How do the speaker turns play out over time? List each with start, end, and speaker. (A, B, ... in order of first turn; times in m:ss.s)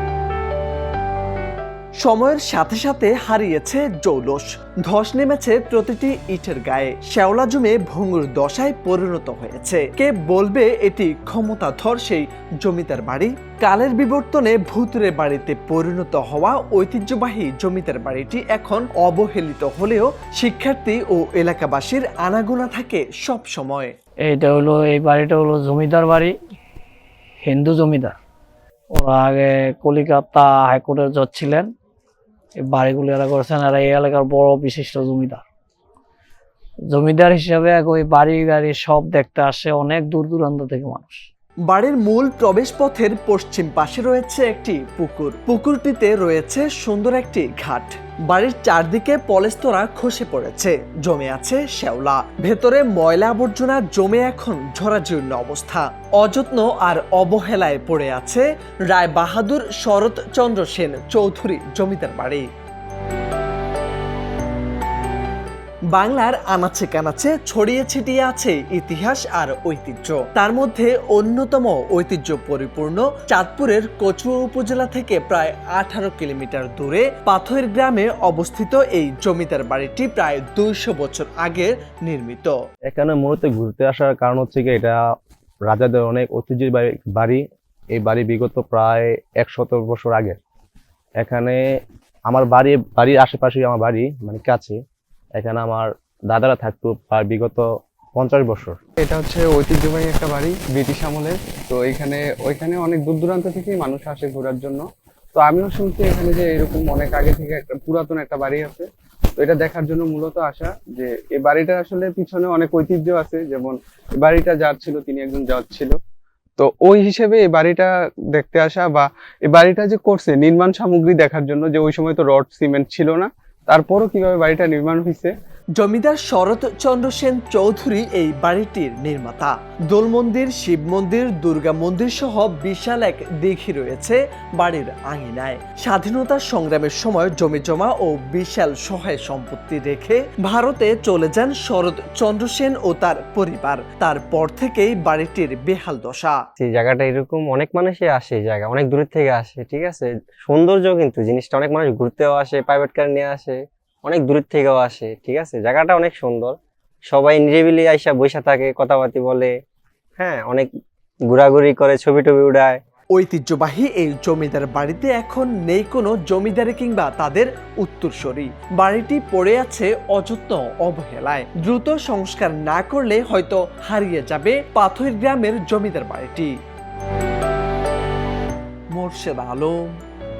0:02.0-0:23.9 A
0:24.3-0:26.3 B
0:27.4-0:28.1 B
0:28.9-0:31.7 B
0:32.6-0:35.4 B
0:36.9-0:41.2 B
0:41.7-1:02.4 A
1:05.9-1:22.5 A
1:22.9-1:25.0 C
1:25.7-1:27.4 C
1:27.9-1:30.4 C
1:31.2-1:31.6 C
1:32.3-1:34.8 C
1:35.4-1:38.8 C
1:39.0-1:44.8 D
1:45.4-1:48.8 D
1:49.4-1:56.0 D
1:56.6-2:05.3 D
2:05.8-2:26.4 A
2:26.6-2:36.6 E
2:37.1-2:39.5 E
2:40.2-2:40.7 E
2:41.3-2:42.8 E
2:43.1-2:56.5 A
2:58.9-2:59.8 A